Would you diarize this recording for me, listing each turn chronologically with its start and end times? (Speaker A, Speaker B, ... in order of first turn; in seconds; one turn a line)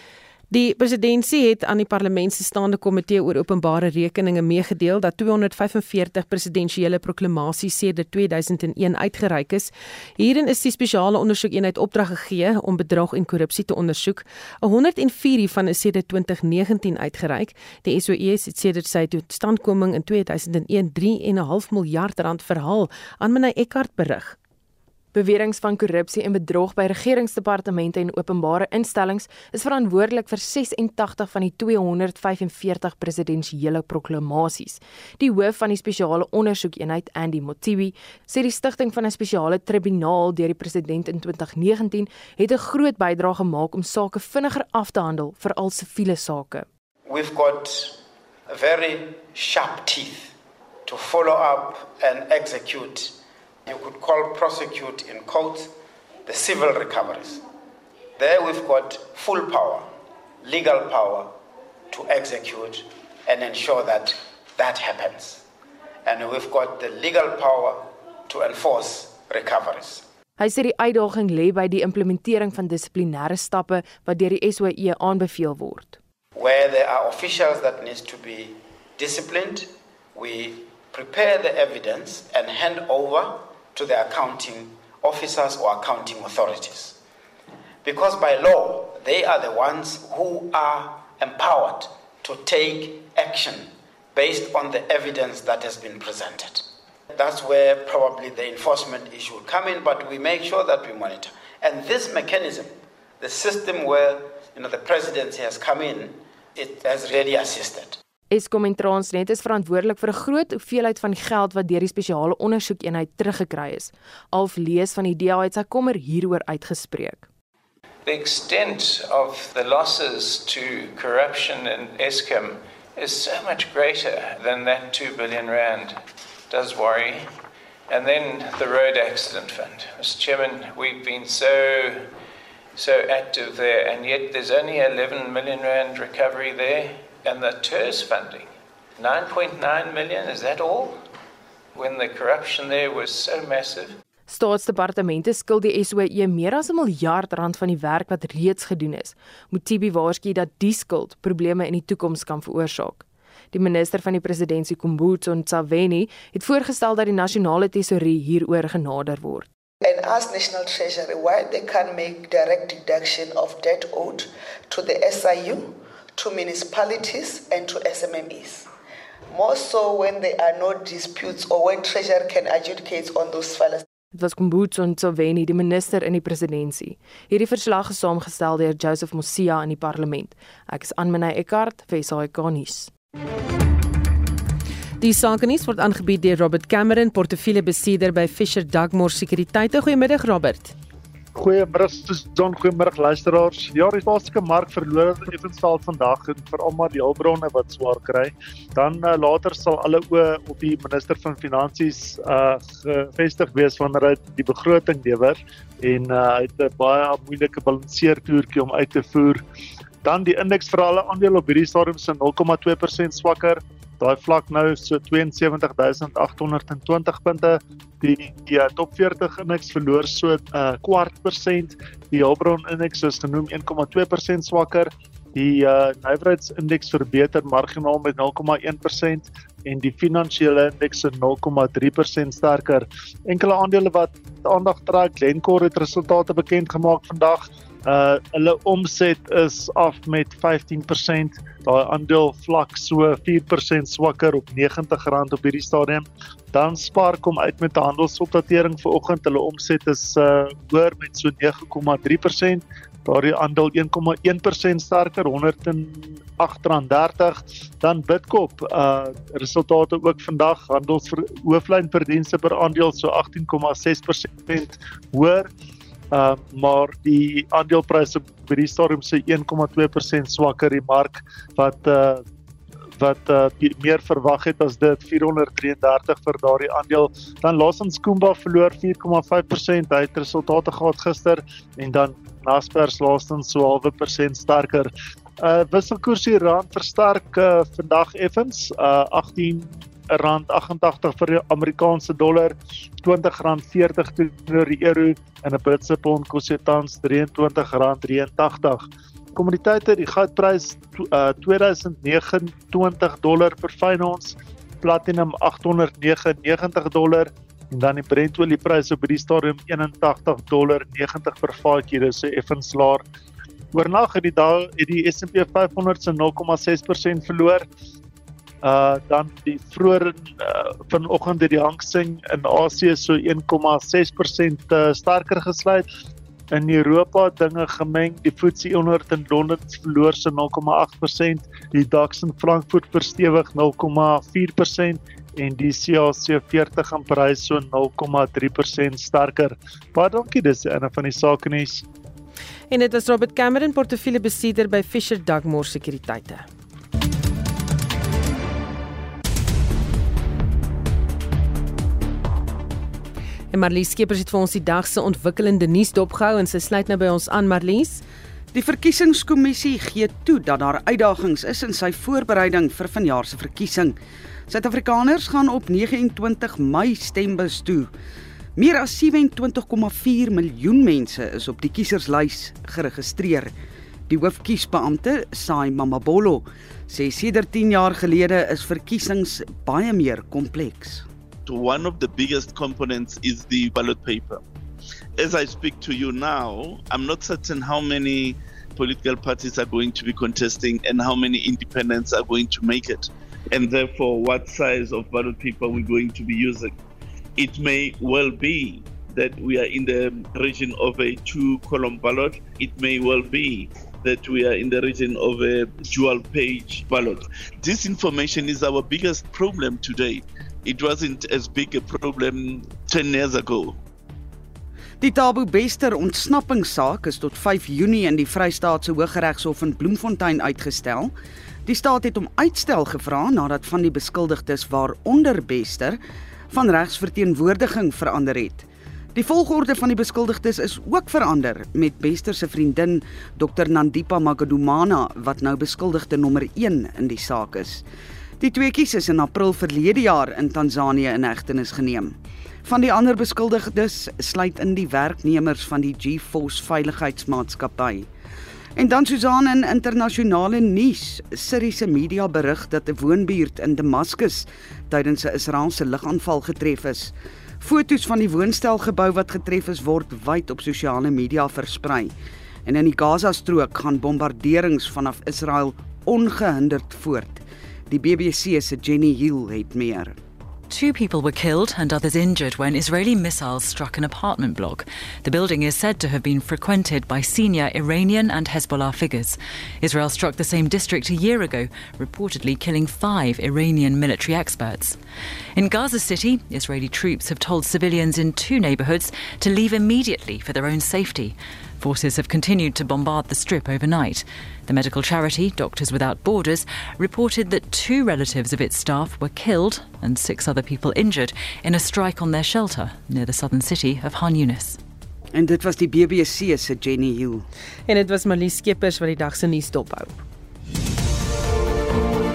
Speaker A: 0.5-24.4
Speaker B: 25.1-46.7
Speaker C: 47.0-50.3
Speaker C: 50.8-55.7
Speaker C: 56.2-57.4
Speaker C: 58.2-61.3
Speaker C: 61.9-65.4
Speaker C: 66.0-70.0
Speaker B: 70.4-76.0
Speaker C: 76.3-87.0
Speaker C: 87.8-108.0
Speaker B: 108.3-117.3
Speaker D: 118.0-127.3
Speaker D: 127.9-132.1
Speaker D: 132.7-141.0
Speaker D: 141.7-144.0
Speaker B: 144.3-159.5
Speaker E: 159.8-168.7
Speaker E: 169.3-173.8
Speaker B: 174.1-182.9
Speaker A: 185.0-190.7
Speaker F: 191.4-209.4
Speaker F: 210.0-265.5
Speaker F: 266.1-272.2
Speaker F: 273.0-284.9
Speaker F: 285.4-313.0
Speaker F: 313.7-317.7
Speaker F: 318.6-325.9
Speaker F: 326.5-341.8
Speaker A: 342.7-346.4
Speaker A: 353.5-358.0
Speaker G: 358.5-364.0
Speaker G: 364.5-367.9
Speaker G: 368.6-373.5
Speaker G: 374.1-381.1
Speaker H: 381.4-384.4
Speaker H: 385.2-396.7
Speaker H: 397.4-413.8
Speaker G: 415.0-421.1
Speaker G: 421.7-426.0
Speaker G: 426.5-437.8
Speaker G: 438.4-448.1
Speaker G: 448.8-462.1
Speaker G: 462.7-470.2
Speaker I: 470.7-485.0
Speaker I: 485.6-504.8
Speaker G: 505.3-507.4
Speaker A: 507.9-510.2